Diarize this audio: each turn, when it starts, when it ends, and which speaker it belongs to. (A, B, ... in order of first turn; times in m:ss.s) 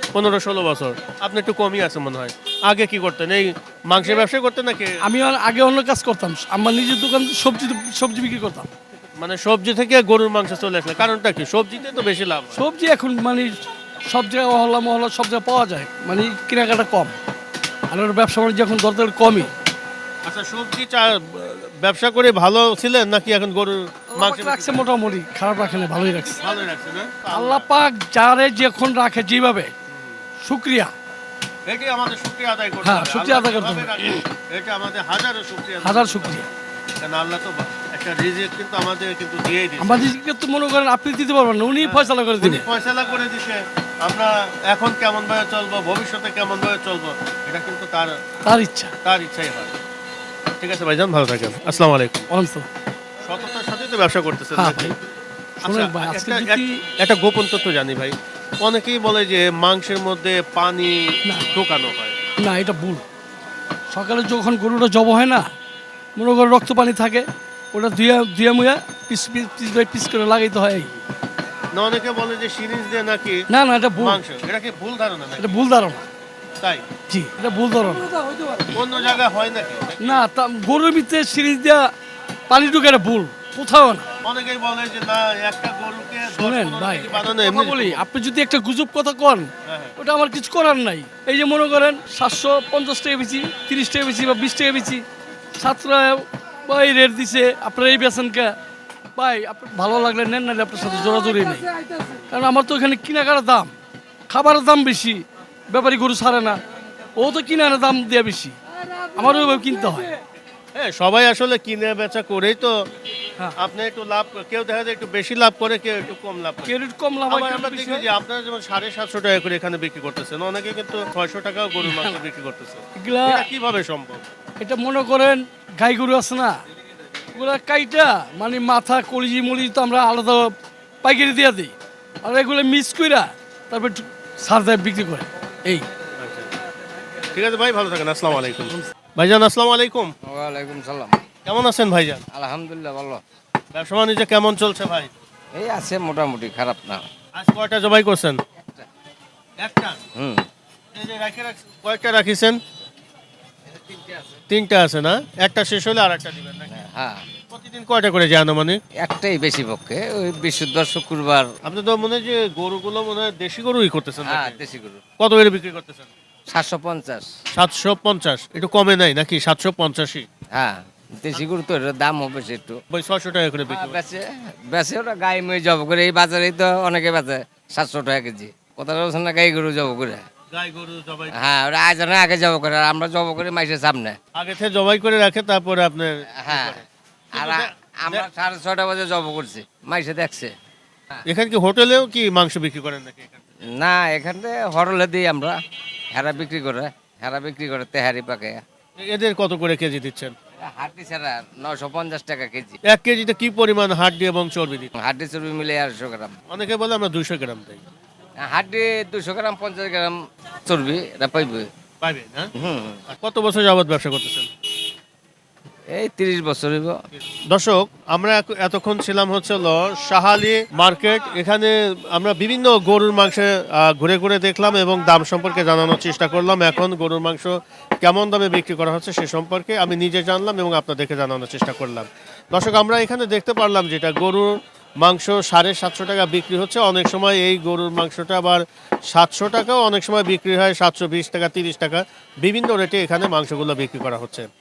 0:00.2-0:05.0 A
0:05.0-0:08.7 B
0:09.2-0:12.6 A
0:12.5-0:17.2 B
0:17.9-0:19.5 B
0:20.3-0:24.9 A
0:24.1-0:26.4 B
0:26.4-0:27.7 A
0:27.3-0:29.7 B
0:29.9-0:30.2 A
0:30.4-0:30.9 B
0:31.7-0:36.4 A
0:32.8-0:34.2 B
0:35.8-0:36.5 B
0:37.0-0:40.1 A
0:39.8-0:42.7 B
0:41.8-0:48.2 A
0:48.4-0:48.9 B
0:49.0-0:49.8 A
0:50.6-0:52.3 A
0:52.3-0:52.7 B
0:53.2-0:54.9 A
0:54.5-0:55.0 B
0:55.6-0:56.8 B
0:55.6-1:02.2 A
1:01.2-1:01.5 B
1:02.4-1:03.0 B
1:03.9-1:05.5 B
1:06.2-1:11.0 B
1:11.7-1:13.5 A
1:13.5-1:14.2 B
1:14.0-1:15.7 A
1:15.4-1:16.0 B
1:17.1-1:18.8 B
1:18.7-1:20.2 A
1:20.0-1:21.9 B
1:22.5-1:24.1 B
1:24.2-1:28.0 A
1:26.3-1:35.0 B
1:29.7-1:30.0 A
1:35.6-1:38.6 B
1:39.2-1:41.7 B
1:42.3-1:43.7 B
1:44.3-1:46.6 B
1:47.2-1:48.6 B
1:49.2-1:50.1 B
1:50.8-1:52.7 A
1:53.6-1:56.7 A
1:56.7-1:58.1 B
1:57.3-2:04.2 A
2:01.8-2:02.2 B
2:03.0-2:03.5 B
2:04.6-2:06.6 B
2:07.4-2:15.9 B
2:16.2-2:16.5 A
2:17.3-2:20.1 A
2:18.3-2:18.9 B
2:20.3-2:21.2 C
2:21.5-2:22.2 A
2:22.3-2:23.2 C
2:23.7-2:25.1 A
2:25.5-2:27.1 C
2:27.4-2:28.4 A
2:29.6-2:30.0 A
2:30.2-2:30.4 C
2:30.9-2:32.6 A
2:33.7-2:34.3 C
2:34.5-2:36.8 A
2:36.7-2:37.2 C
2:37.5-2:38.8 A
2:39.0-2:41.5 C
2:41.6-2:44.6 A
2:44.3-2:45.0 C
2:45.2-2:46.1 A
2:46.5-2:47.3 C
2:47.5-2:50.3 A
2:50.5-2:52.8 C
2:52.9-2:54.0 A
2:53.7-3:00.3 C
3:00.5-3:01.4 A
3:01.3-3:04.2 C
3:04.4-3:06.8 A
3:06.4-3:06.7 C
3:07.3-3:10.5 C
3:07.4-3:08.3 A
3:11.2-3:13.5 A
3:13.8-3:15.6 C
3:16.1-3:18.6 C
3:19.0-3:20.4 A
3:20.7-3:22.8 C
3:22.9-3:24.9 A
3:25.0-3:26.3 C
3:26.5-3:27.8 A
3:28.4-3:31.7 C
3:32.0-3:32.5 A
3:32.6-3:33.0 C
3:33.1-3:34.5 A
3:35.9-3:37.0 C
3:37.5-4:04.5 A